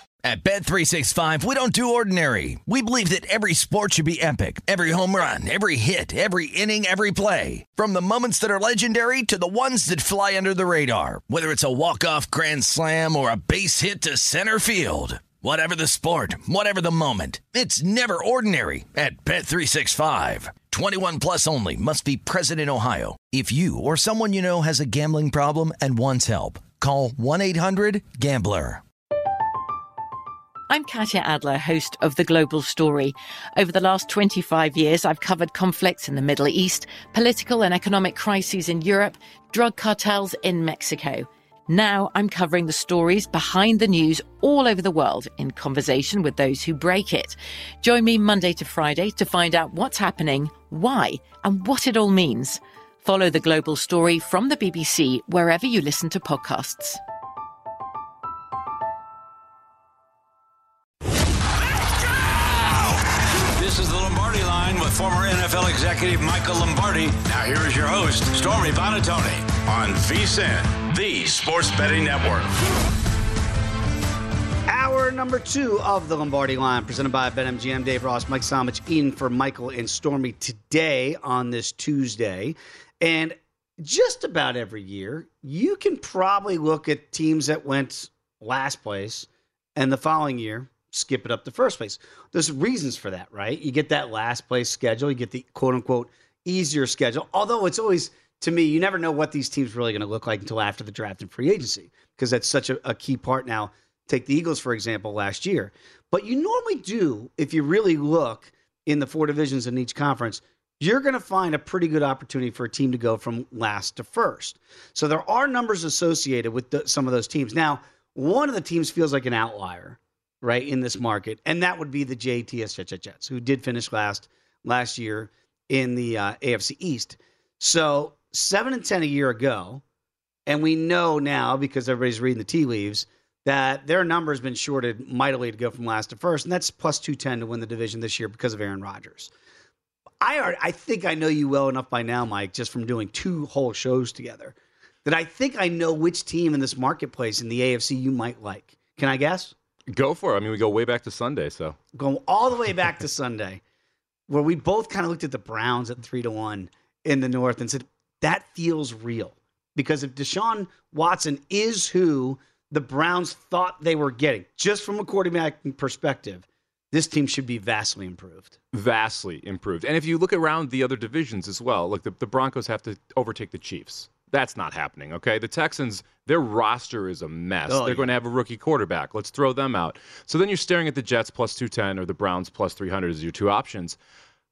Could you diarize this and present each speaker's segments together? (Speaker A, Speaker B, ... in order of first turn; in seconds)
Speaker A: 0.2-28.8
Speaker B: 30.7-57.0
Speaker C: 62.3-72.5
Speaker D: 74.7-129.8, 130.5-139.3, 140.2-144.5, 145.1-149.5, 151.9-153.6, 154.3-168.5, 177.7-178.1
Speaker E: 149.9-151.8, 168.7-184.0